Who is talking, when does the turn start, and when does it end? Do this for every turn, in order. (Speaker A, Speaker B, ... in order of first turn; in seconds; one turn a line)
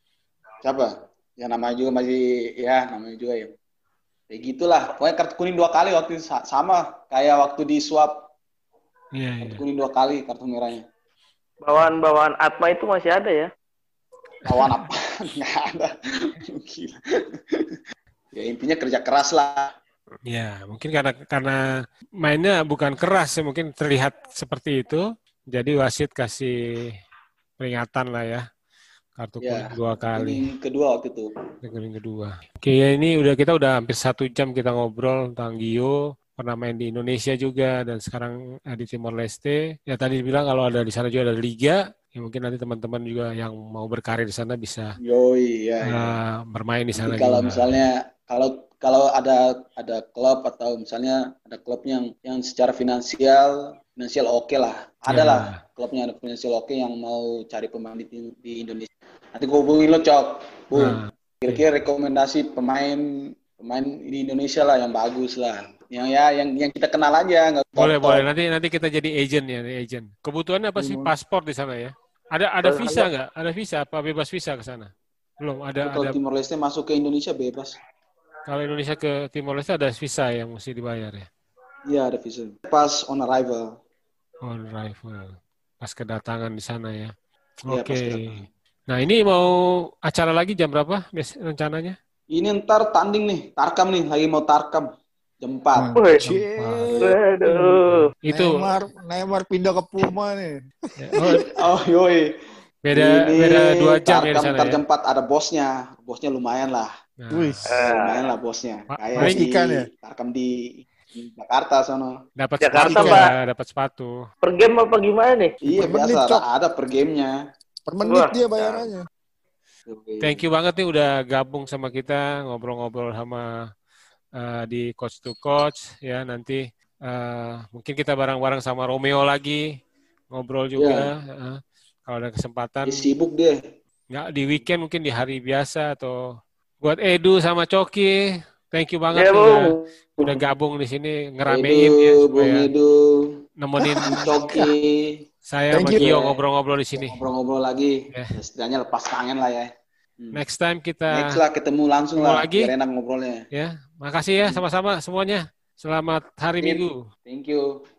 Speaker A: 0.6-3.5
Speaker A: 4.3-8.3
Speaker B: 9.1-9.6
Speaker A: 9.4-10.8
Speaker C: 11.6-13.5
Speaker A: 14.4-17.8
Speaker B: 14.5-14.7
Speaker A: 18.3-19.7
Speaker B: 20.3-26.9
Speaker B: 27.6-28.4
Speaker B: 29.2-30.4
Speaker A: 29.4-31.3
Speaker B: 31.6-45.0
Speaker A: 45.0-46.2
Speaker B: 45.8-47.8
Speaker A: 46.9-68.3
Speaker B: 55.1-55.6
Speaker B: 60.7-61.6
Speaker B: 67.8-76.2
Speaker D: 70.8-71.1
Speaker A: 72.6-73.0
Speaker A: 75.8-77.8
Speaker B: 78.5-81.3
Speaker A: 81.9-83.8
Speaker B: 84.4-87.1
Speaker B: 87.7-92.0
Speaker A: 87.7-88.5
Speaker A: 92.3-94.9
Speaker A: 95.4-95.9
Speaker D: 95.8-97.2
Speaker C: 95.9-96.2
Speaker B: 96.2-98.7
Speaker C: 97.0-98.1
Speaker D: 98.3-101.4
Speaker B: 101.0-101.5
Speaker A: 101.2-102.3
Speaker B: 102.8-104.8
Speaker A: 102.9-106.9
Speaker B: 107.2-107.7
Speaker D: 107.3-107.7
Speaker C: 107.7-108.3
Speaker A: 107.8-112.2
Speaker B: 108.9-109.4
Speaker D: 109.2-109.9
Speaker B: 112.4-114.2
Speaker C: 112.6-113.3
Speaker D: 112.8-113.2
Speaker C: 114.4-115.5
Speaker D: 115.6-116.4
Speaker A: 115.7-117.4
Speaker D: 117.9-119.1
Speaker C: 118.0-118.3
Speaker A: 118.5-118.9
Speaker A: 119.9-120.4
Speaker B: 120.2-123.7
Speaker B: 124.4-129.7
Speaker B: 130.3-133.0
Speaker A: 130.8-131.1
Speaker A: 132.8-133.6
Speaker B: 134.1-136.2
Speaker B: 136.8-138.2
Speaker B: 138.7-142.7
Speaker C: 139.1-140.4
Speaker A: 141.5-143.3
Speaker B: 143.6-144.4
Speaker A: 144.0-145.2
Speaker B: 145.5-147.2
Speaker D: 145.7-146.1
Speaker A: 145.9-146.4
Speaker A: 147.0-150.4
Speaker B: 150.3-151.4
Speaker A: 151.1-153.4
Speaker B: 152.2-152.7
Speaker B: 153.5-157.0
Speaker A: 156.6-157.7